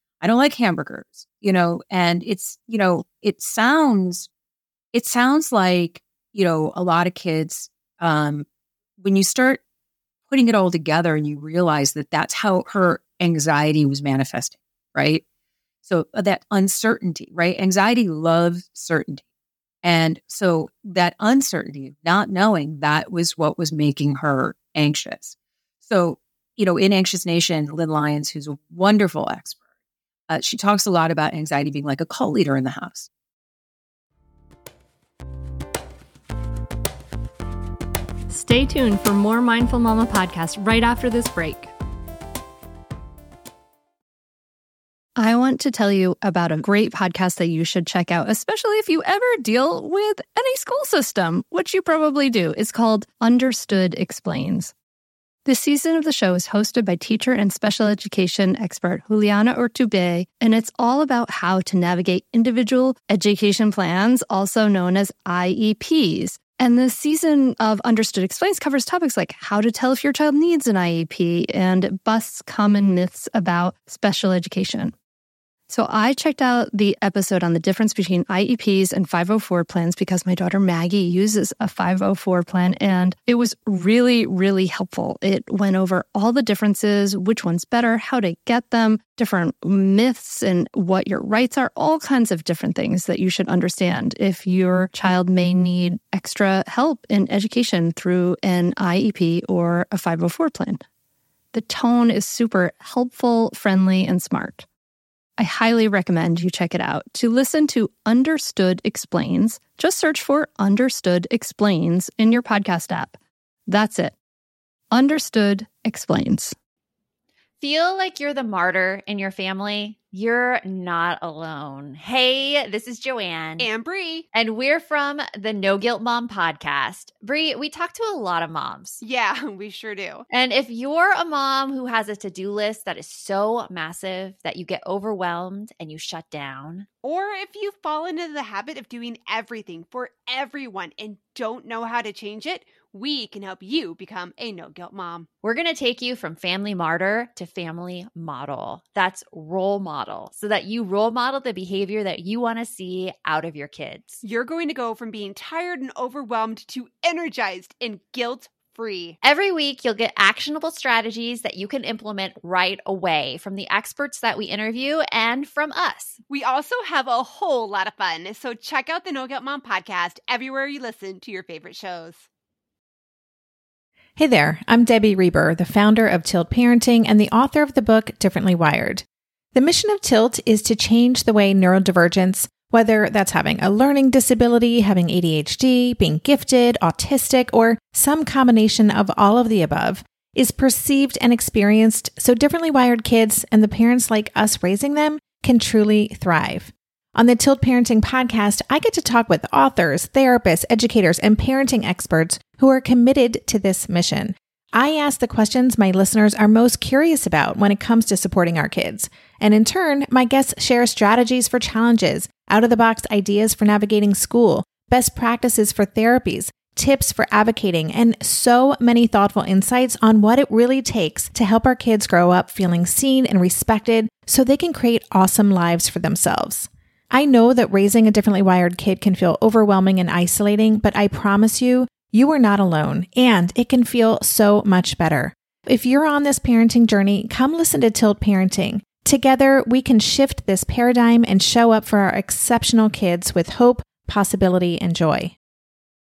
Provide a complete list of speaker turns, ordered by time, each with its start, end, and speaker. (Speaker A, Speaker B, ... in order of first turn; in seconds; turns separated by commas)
Speaker A: 0.2-4.3, Speaker A: 4.9-8.4, Speaker A: 9.0-9.6, Speaker A: 10.3-15.2, Speaker A: 15.8-19.2, Speaker A: 19.8-29.6, Speaker A: 30.3-33.1, Speaker B: 38.3-41.7, Speaker B: 45.2-54.7, Speaker B: 55.5-74.9, Speaker B: 75.7-100.8, Speaker B: 101.5-104.6, Speaker B: 105.4-114.2, Speaker B: 114.9-116.5, Speaker C: 117.6-123.7, Speaker D: 123.6-124.2, Speaker C: 124.3-129.0, Speaker D: 129.0-130.3, Speaker C: 130.3-136.9, Speaker D: 137.0-145.3, Speaker C: 145.4-154.2, Speaker D: 154.2-159.2, Speaker C: 159.2-166.2, Speaker D: 166.3-172.2, Speaker E: 174.2-245.3